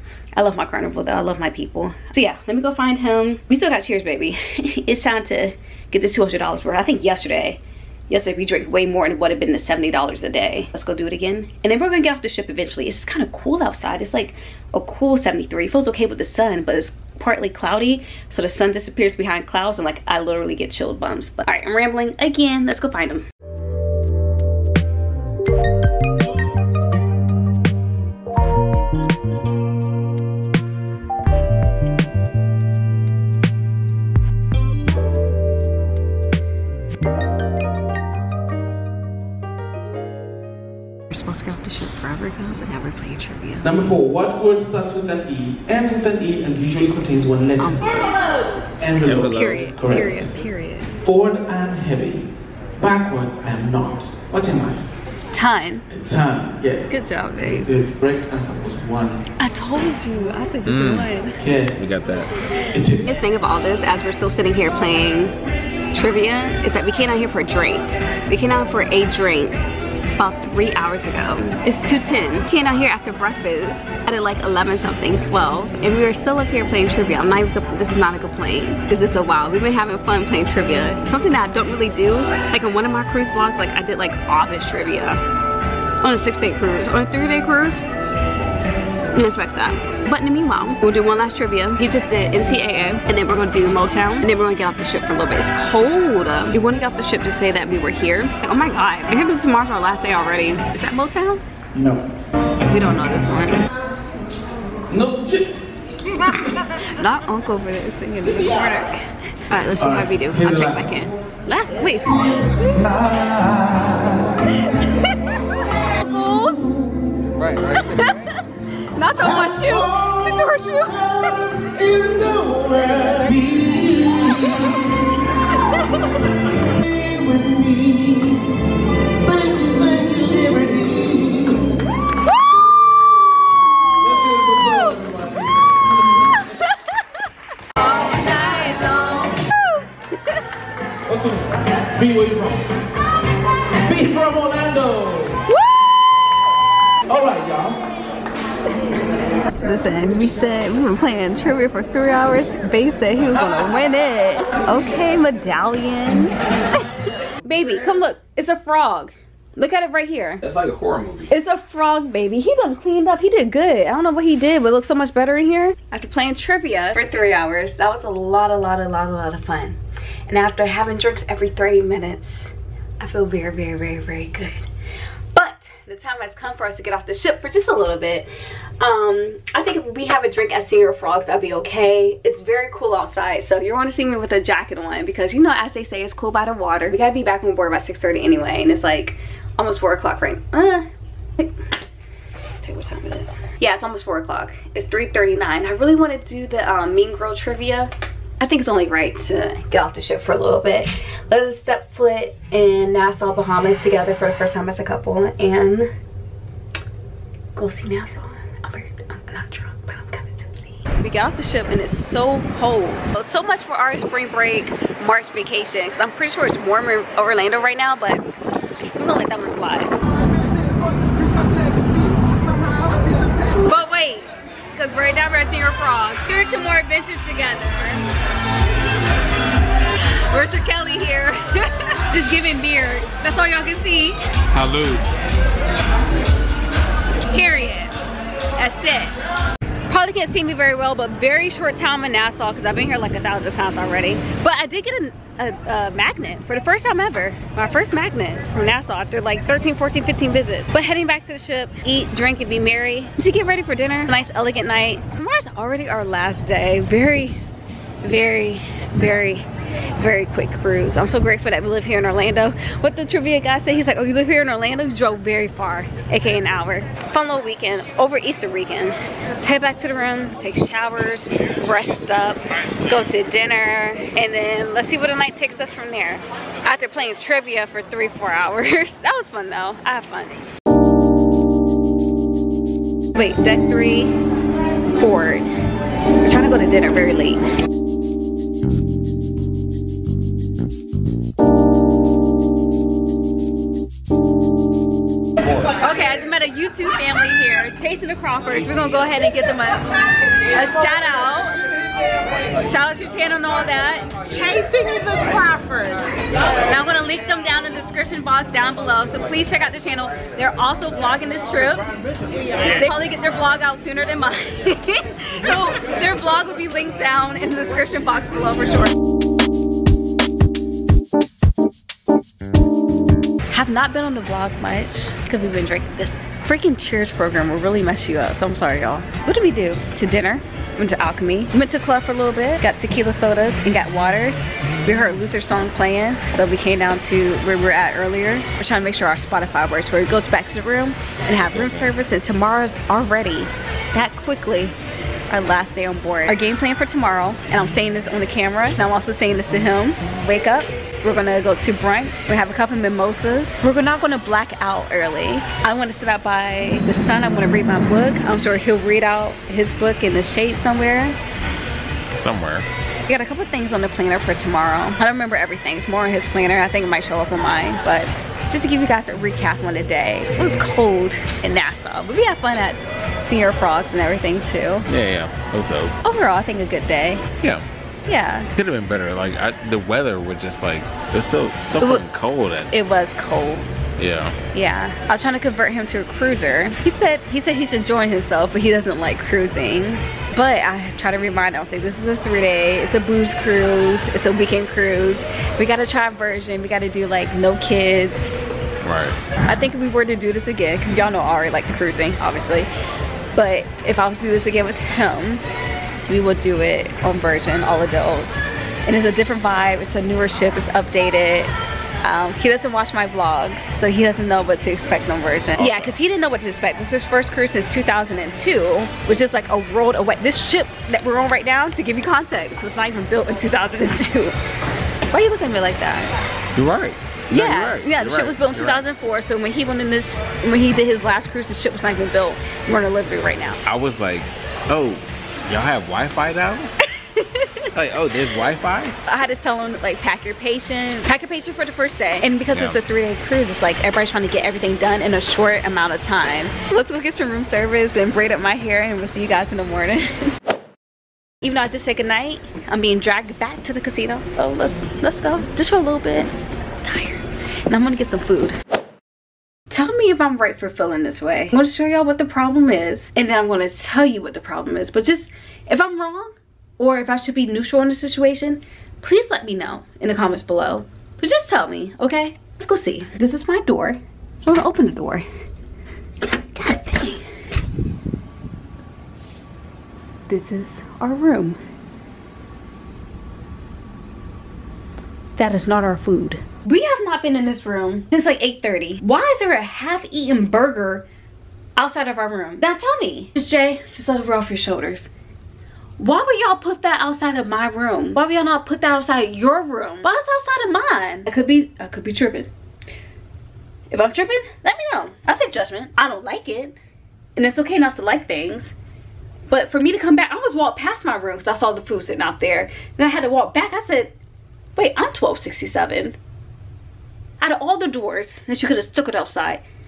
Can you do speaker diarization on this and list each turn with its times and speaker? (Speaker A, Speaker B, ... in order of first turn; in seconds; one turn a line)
Speaker A: 0.3-23.2
Speaker A: 41.1-43.7
Speaker B: 43.6-48.0
Speaker A: 47.6-48.1
Speaker B: 48.8-50.3
Speaker C: 49.0-49.7
Speaker A: 49.2-50.9
Speaker B: 51.0-54.9
Speaker A: 55.3-55.9
Speaker B: 55.9-59.2
Speaker A: 56.9-57.7
Speaker A: 59.4-61.4
Speaker C: 60.6-61.1
Speaker B: 61.4-61.9
Speaker C: 61.8-62.3
Speaker B: 62.7-63.1
Speaker A: 63.0-65.3
Speaker A: 65.9-69.6
Speaker A: 70.2-85.2
Speaker A: 86.0-87.8
Speaker A: 89.1-101.4
Speaker B: 101.7-102.0
Speaker A: 102.7-103.6
Speaker B: 104.9-105.5
Speaker A: 106.8-112.9
Speaker B: 109.8-110.9
Speaker B: 113.3-114.0
Speaker A: 114.5-116.9
Speaker C: 117.4-118.2
Speaker A: 117.7-121.8
Speaker B: 119.3-120.4
Speaker B: 121.2-124.8
Speaker B: 126.8-128.5
Speaker B: 129.2-131.6
Speaker B: 134.0-136.3
Speaker A: 136.3-137.0
Speaker A: 137.8-140.4
Speaker B: 141.1-142.7
Speaker B: 143.7-145.4
Speaker A: 145.5-145.9
Speaker B: 147.1-147.8
Speaker A: 149.6-156.8
Speaker A: 157.4-160.4
Speaker C: 160.4-161.3
Speaker A: 161.3-174.7
Speaker A: 175.3-191.6
Speaker A: 192.6-205.9
Speaker A: 207.6-218.3
Speaker A: 218.9-220.0
Speaker A: 223.4-228.0
Speaker A: 230.3-234.2
Speaker C: 234.5-235.1
Speaker A: 237.2-238.0
Speaker A: 238.6-239.1
Speaker A: 239.9-257.4
Speaker A: 258.0-280.4
Speaker A: 283.1-284.1
Speaker A: 284.9-285.4
Speaker A: 286.2-287.4
Speaker A: 295.8-299.9
Speaker A: 300.4-301.6
Speaker A: 302.6-304.8
Speaker B: 304.8-305.8
Speaker A: 306.5-311.8
Speaker A: 312.8-318.9
Speaker A: 323.5-344.7
Speaker C: 341.5-341.9
Speaker A: 345.3-361.1
Speaker C: 362.1-362.6
Speaker A: 363.1-374.9
Speaker C: 374.9-376.0
Speaker A: 376.0-377.4
Speaker A: 378.1-378.5
Speaker C: 378.5-382.7
Speaker A: 382.7-383.7
Speaker C: 384.0-384.4
Speaker A: 384.5-398.3
Speaker C: 398.8-399.2
Speaker A: 399.4-402.7
Speaker A: 403.3-405.4
Speaker A: 406.1-411.5
Speaker A: 412.0-424.3
Speaker C: 415.6-416.0
Speaker A: 425.1-426.1
Speaker C: 426.5-428.8
Speaker A: 427.3-433.6
Speaker C: 433.6-436.7
Speaker A: 437.0-437.7
Speaker C: 437.7-438.9
Speaker A: 439.1-450.3
Speaker C: 442.5-442.8
Speaker A: 451.4-458.6
Speaker A: 459.7-475.2
Speaker A: 476.5-477.2
Speaker A: 480.3-481.6
Speaker A: 485.4-491.1
Speaker A: 491.8-495.1
Speaker A: 496.0-502.5
Speaker A: 503.9-506.8
Speaker A: 507.4-508.7
Speaker A: 509.5-514.1
Speaker A: 514.8-516.2
Speaker A: 517.4-519.6